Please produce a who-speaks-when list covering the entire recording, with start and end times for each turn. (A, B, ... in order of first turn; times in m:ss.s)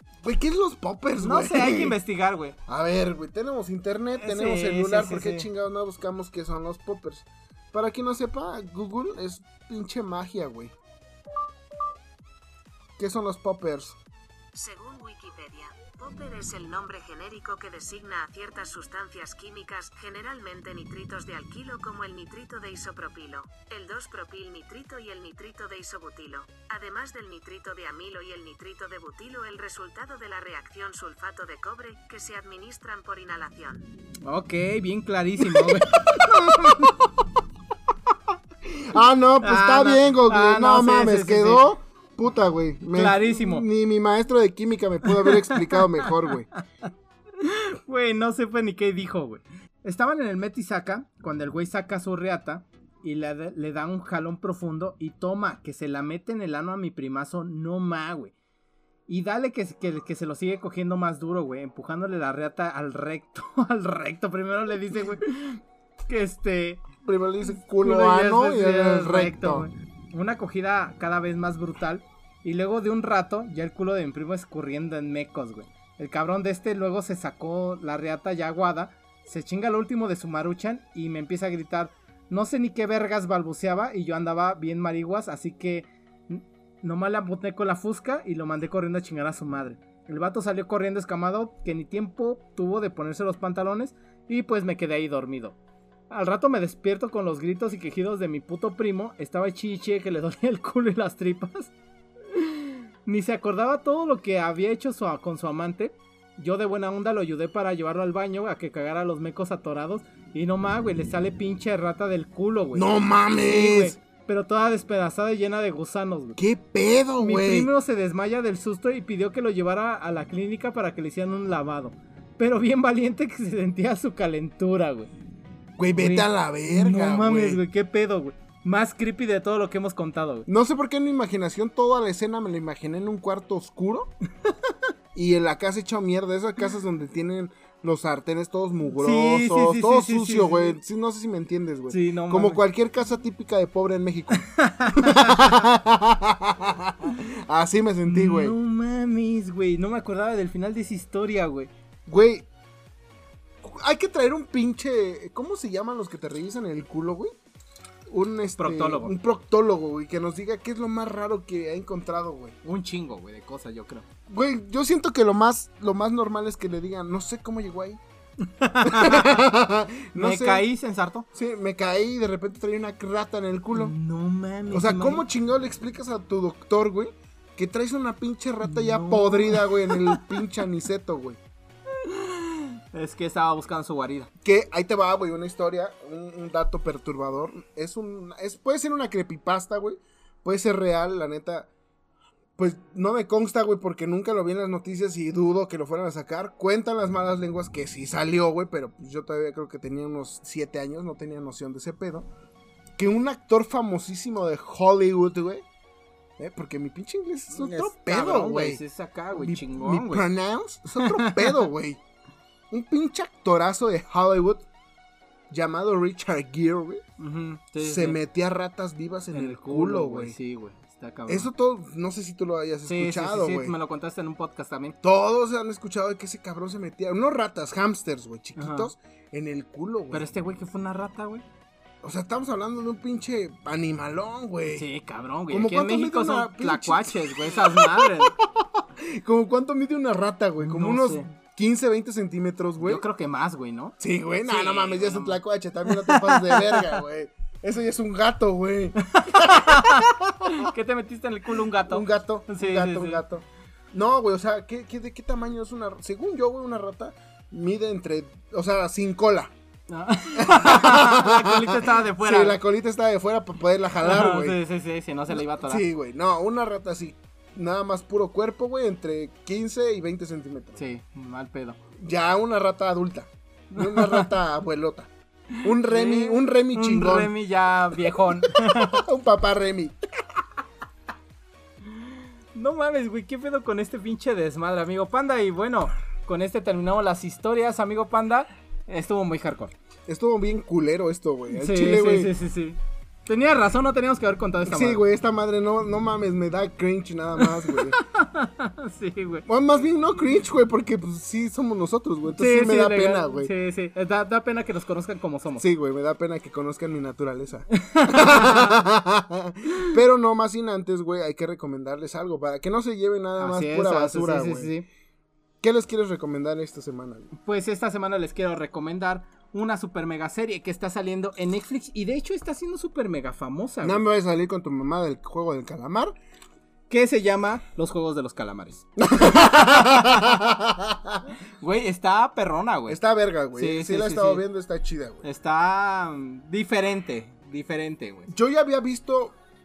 0:00.2-0:02.0 A
0:01.2-0:02.6 B
0:02.7-0:10.7 A
0:04.2-0:05.5 B
0:13.0-0:14.0 A
0:14.5-0:33.9 C
0:34.2-0:37.0 B
0:35.4-0:37.0 A
0:38.7-0:46.5 A
0:39.4-0:41.6 B
0:42.9-0:43.6 B
0:45.2-0:46.1 B
0:47.4-0:58.3 B
0:59.1-1:06.9 B
1:07.0-1:09.7 A
1:07.4-1:35.6 B
1:36.1-1:41.7 B
1:42.3-1:52.9 B
1:52.7-1:54.0 A
1:53.4-1:56.4 B
1:56.4-1:57.7 A
1:57.2-2:05.1 B
2:05.8-2:07.6 A
2:06.0-2:10.5 B
2:10.5-2:14.1 A
2:14.5-2:14.8 B
2:15.2-2:28.6 A
2:19.0-2:20.8 B
2:21.9-2:22.6 B
2:24.4-2:25.4 B
2:28.0-2:31.7 B
2:32.1-2:32.5 A
2:33.6-2:37.3 A
2:38.1-2:42.6 A
2:38.6-2:39.1 B
2:42.6-2:44.1 B
2:44.3-2:48.0 A
2:48.4-2:49.5 B
2:48.8-2:50.6 A
2:50.2-2:51.3 B
2:51.3-2:53.9 A
2:53.7-2:55.2 B
2:54.7-3:01.4 A
2:58.6-3:00.4 B
3:02.0-3:04.3 B
3:04.4-3:11.7 A
3:12.6-3:22.3 A
3:23.0-3:25.6 A
3:26.4-3:28.8 A
3:27.5-3:30.3 B
3:29.3-3:32.0 A
3:31.0-3:31.7 B
3:32.7-3:34.7 A
3:35.5-3:37.0 A
3:37.2-3:38.2 B
3:37.8-3:40.4 A
3:39.3-3:41.5 B
3:41.3-3:43.8 A
3:42.8-3:45.0 B
3:45.0-3:50.2 A
3:48.6-3:48.9 B
3:50.1-3:51.4 B
3:52.0-3:54.9 A
3:54.7-3:58.3 B
3:55.5-4:03.0 A
4:00.6-4:01.3 B
4:02.8-4:07.0 B
4:04.0-4:10.7 A
4:09.0-4:13.2 B
4:11.8-4:19.5 A
4:19.9-4:22.6 B
4:20.4-4:24.6 A
4:24.0-4:25.8 B
4:25.3-4:30.8 A
4:30.8-4:31.8 B
4:32.0-4:35.1 A
4:33.7-4:34.3 B
4:35.6-4:39.0 B
4:35.6-4:37.3 A
4:38.1-4:40.0 A
4:41.9-4:49.7 B
4:50.1-4:52.3 A
4:51.5-4:55.0 B
4:54.7-4:58.0 A
4:57.4-4:59.4 B
4:59.5-5:03.5 A
5:02.3-5:05.6 B
5:05.6-5:14.7 A
5:07.7-5:08.8 B
5:09.7-5:09.9 B
5:13.4-5:14.9 B
5:15.6-5:17.3 A
5:17.4-5:24.0 B
5:23.8-5:26.2 A
5:26.9-5:30.4 B
5:29.0-5:31.3 A
5:31.6-5:33.0 B
5:32.9-5:35.2 A
5:33.6-5:34.4 B
5:35.2-5:38.3 B
5:38.3-5:39.4 A